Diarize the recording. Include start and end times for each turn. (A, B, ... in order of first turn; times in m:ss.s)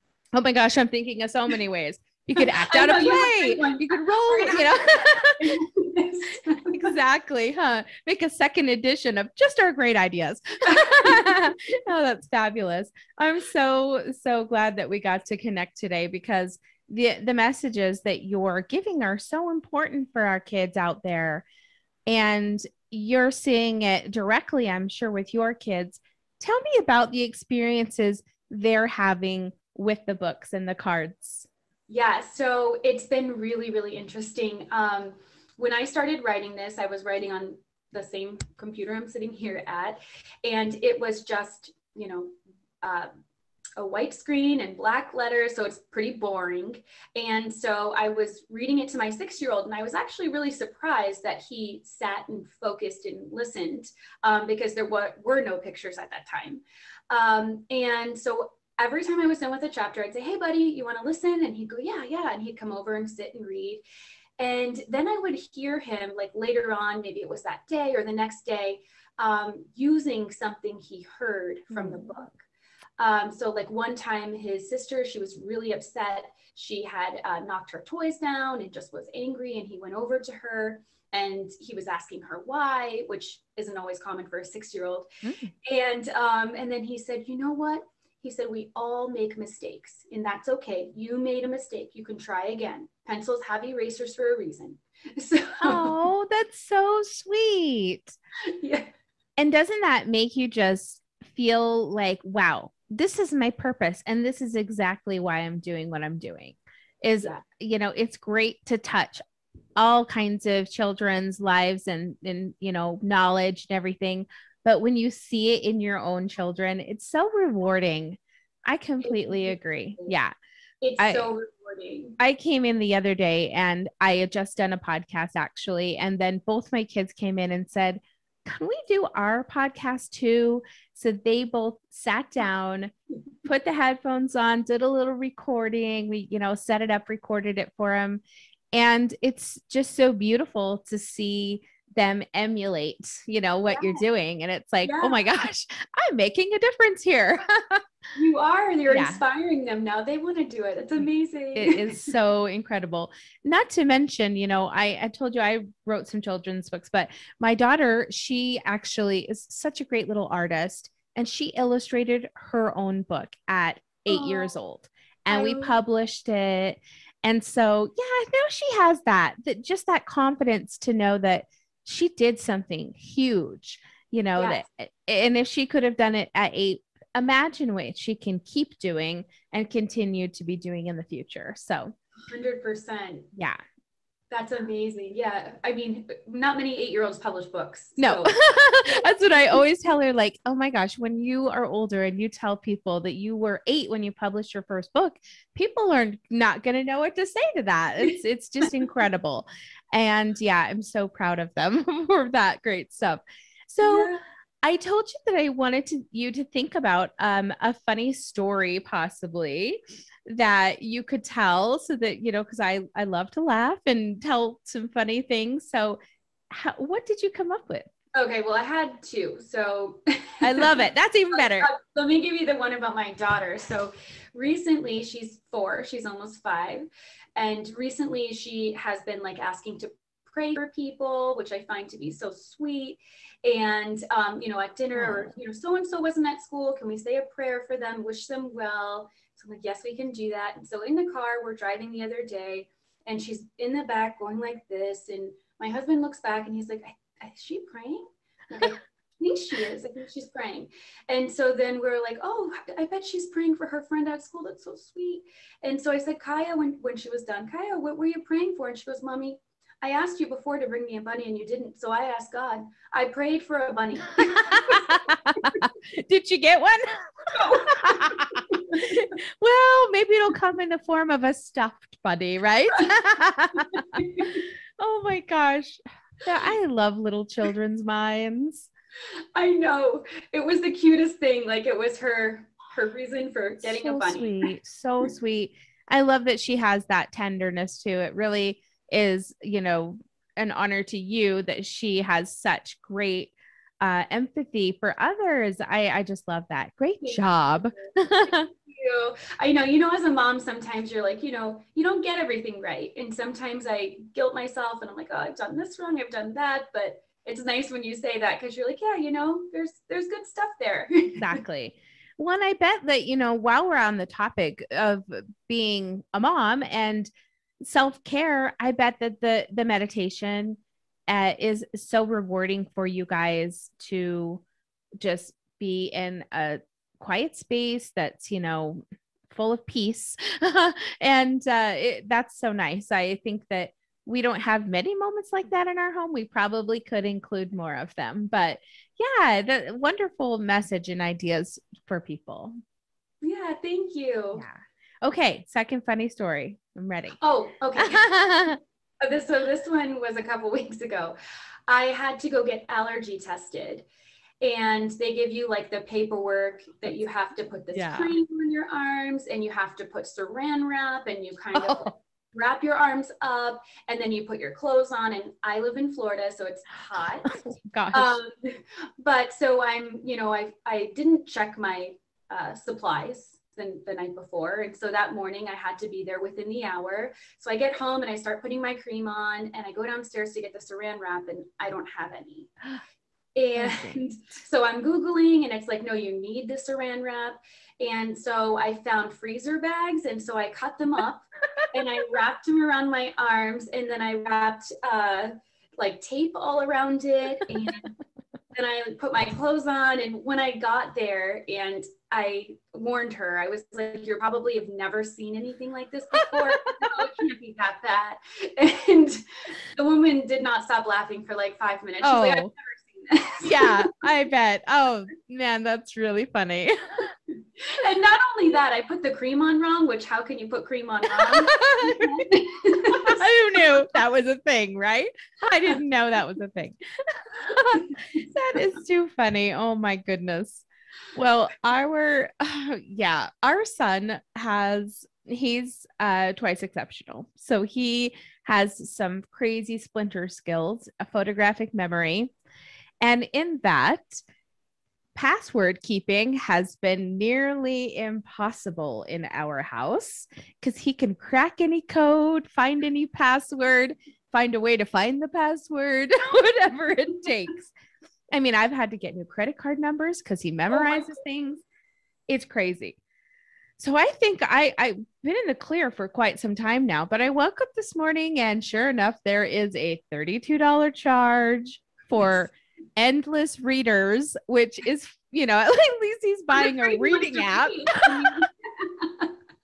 0:00.3-0:05.6 A
0:02.4-0:06.9 B
0:06.7-0:21.4 A
0:10.7-0:11.3 B
0:22.1-0:31.5 A
0:31.9-0:43.1 B
0:43.8-1:03.8 B
1:04.4-1:12.4 B
1:11.7-1:12.1 A
1:13.0-1:25.1 B
1:25.2-1:25.5 A
1:25.6-1:36.0 B
1:35.6-1:38.2 A
1:38.5-1:38.9 B
1:39.4-1:49.2 A
1:49.8-2:00.3 A
1:59.0-2:00.1 B
2:00.8-2:02.2 B
2:01.0-2:01.3 A
2:02.2-2:12.9 A
2:13.4-2:27.8 A
2:23.7-2:24.0 B
2:24.8-2:25.2 B
2:28.2-2:32.1 B
2:28.9-2:29.2 A
2:31.6-3:01.9 A
2:44.1-2:44.5 B
2:45.3-2:45.8 B
2:54.4-2:54.6 B
3:02.3-3:03.3 B
3:03.3-3:03.6 A
3:04.3-3:09.6 B
3:08.0-3:24.1 A
3:23.8-3:24.2 B
3:24.6-3:37.9 A
3:38.2-3:40.8 B
3:40.4-3:41.7 A
3:41.3-4:25.6 B
3:55.0-3:55.3 A
4:24.2-4:33.8 A
4:27.3-4:29.0 B
4:33.6-4:34.4 B
4:34.8-4:38.7 A
4:39.4-4:44.5 B
4:43.6-4:58.5 A
4:57.0-5:11.4 B
5:11.2-5:17.1 A
5:17.6-5:24.4 A
5:25.0-5:42.6 A
5:43.2-5:44.4 B
5:44.3-5:47.2 A
5:47.2-5:48.1 B
5:47.8-5:48.6 A
5:49.0-5:51.2 B
5:51.7-5:53.9 B
5:54.4-6:07.4 B
5:57.7-5:58.2 A
6:01.6-6:01.9 A
6:07.3-6:08.2 A
6:07.9-6:22.5 B
6:23.4-6:37.9 B
6:23.6-6:24.0 A
6:38.5-6:53.9 B
6:52.0-6:52.5 A
6:53.4-6:57.1 A
6:57.6-7:03.3 B
7:01.1-7:02.3 A
7:02.8-7:22.3 A
7:23.0-7:24.2 A
7:25.2-7:37.7 A
7:38.3-7:41.6 A
7:40.8-7:41.0 B
7:42.3-7:43.0 A
7:43.8-7:58.4 A
7:56.5-7:59.3 B